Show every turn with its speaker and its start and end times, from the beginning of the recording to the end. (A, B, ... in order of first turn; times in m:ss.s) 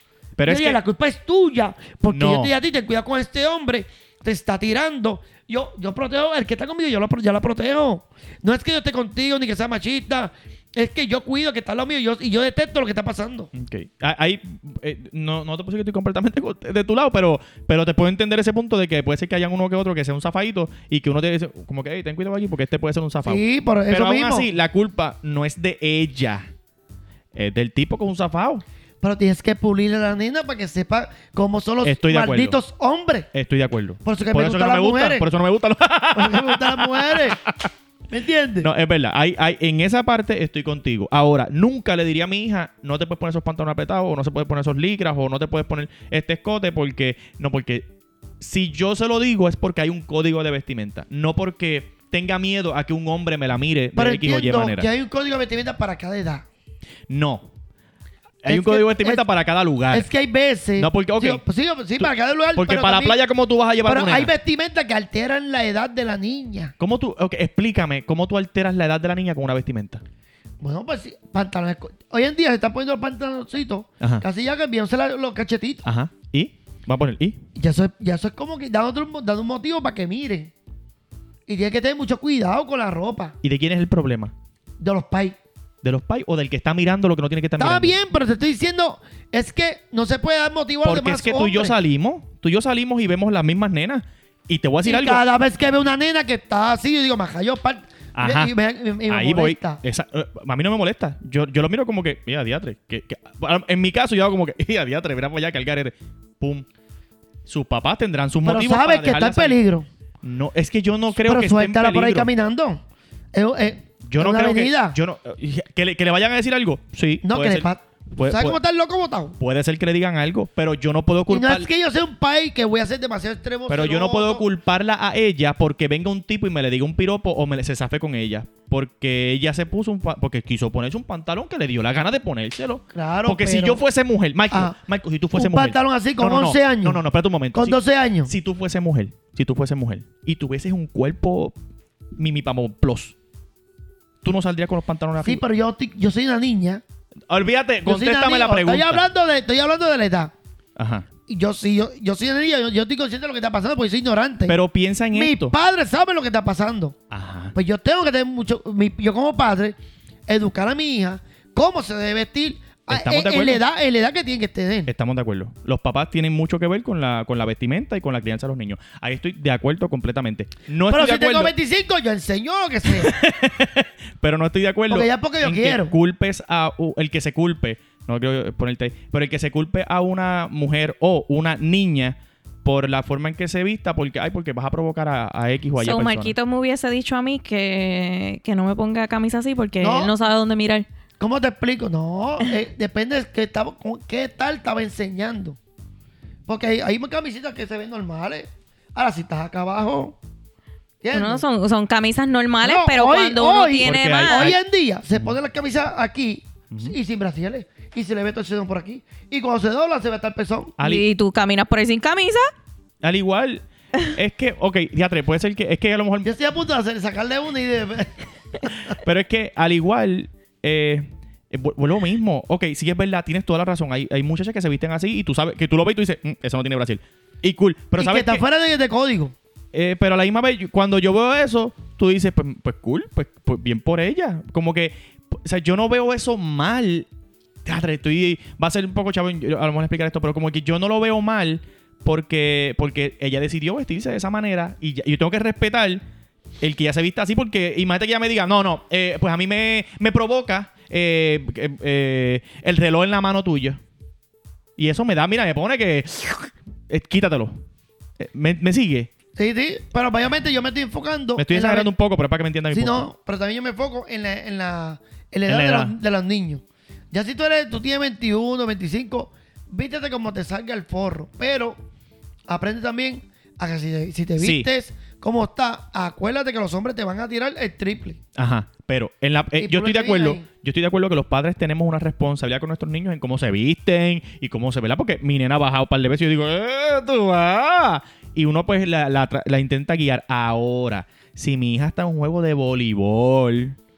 0:00.4-0:00.8 A
0:00.5-0:13.5 B
0:02.1-0:02.5 A
0:13.5-0:26.5 A
0:23.2-0:24.5 B
0:27.3-0:28.6 A
0:29.0-0:33.3 B
0:31.8-0:32.6 A
0:33.3-0:37.7 A
0:34.0-0:35.3 B
0:36.2-0:37.4 B
0:38.1-0:38.7 B
0:38.6-0:47.9 A
0:48.4-0:54.9 A
0:54.0-0:56.4 B
0:57.1-0:57.5 A
0:58.4-1:00.1 A
0:58.5-0:59.2 B
0:59.9-1:03.2 B
1:00.8-1:01.4 A
1:02.6-1:04.3 A
1:03.8-1:06.7 B
1:06.8-1:10.0 A
1:10.6-1:15.8 B
1:15.8-1:17.4 A
1:17.6-1:20.5 B
1:21.5-1:23.4 B
1:23.4-1:24.3 A
1:24.8-1:25.4 B
1:25.8-1:28.0 A
1:27.6-1:31.8 B
1:30.8-1:35.2 A
1:34.8-1:39.8 B
1:38.2-1:38.5 A
1:39.1-1:46.7 A
1:47.5-1:49.6 A
1:48.4-1:49.9 B
1:50.2-1:52.3 A
1:51.2-1:52.8 B
1:53.3-1:55.0 B
1:54.1-1:58.6 A
1:57.2-1:59.4 B
1:59.4-2:01.7 A
2:01.3-2:04.4 B
2:03.7-2:21.6 A
2:12.9-2:13.8 B
2:14.5-2:14.8 B
2:15.3-2:18.3 B
2:22.2-2:23.1 A
2:24.2-2:25.4 A
2:25.2-2:26.8 B
2:27.3-2:29.0 A
2:27.8-2:30.3 B
2:30.8-2:31.1 A
2:31.3-2:34.6 B
2:34.5-2:35.6 A
2:35.1-2:37.0 B
2:37.1-2:37.6 A
2:37.6-2:39.8 B
2:40.3-2:44.9 B
2:42.9-2:43.6 A
2:44.9-2:51.5 A
2:50.9-2:53.1 B
2:52.9-3:06.3 A
2:54.9-2:55.9 B
3:05.8-3:10.9 C
3:09.8-3:10.1 B
3:11.2-3:15.6 B
3:16.5-3:20.2 B
3:21.0-3:21.4 B
3:21.1-3:24.5 C
3:22.6-3:30.8 B
3:23.8-3:24.6 A
3:30.8-3:31.1 A
3:30.8-3:32.5 C
3:33.0-3:36.3 A
3:36.2-3:39.0 B
3:39.0-3:48.4 A
3:48.0-3:49.4 B
3:49.7-3:57.1 A
3:57.6-4:06.0 A
4:06.6-4:13.8 A
4:14.8-4:17.6 A
4:18.2-4:19.1 A
4:19.4-4:21.9 B
4:21.4-4:23.1 A
4:22.7-4:31.8 B
4:25.5-4:26.0 A
4:32.5-4:38.2 B
4:34.4-4:34.7 A
4:38.4-4:53.8 A
4:39.6-4:40.5 B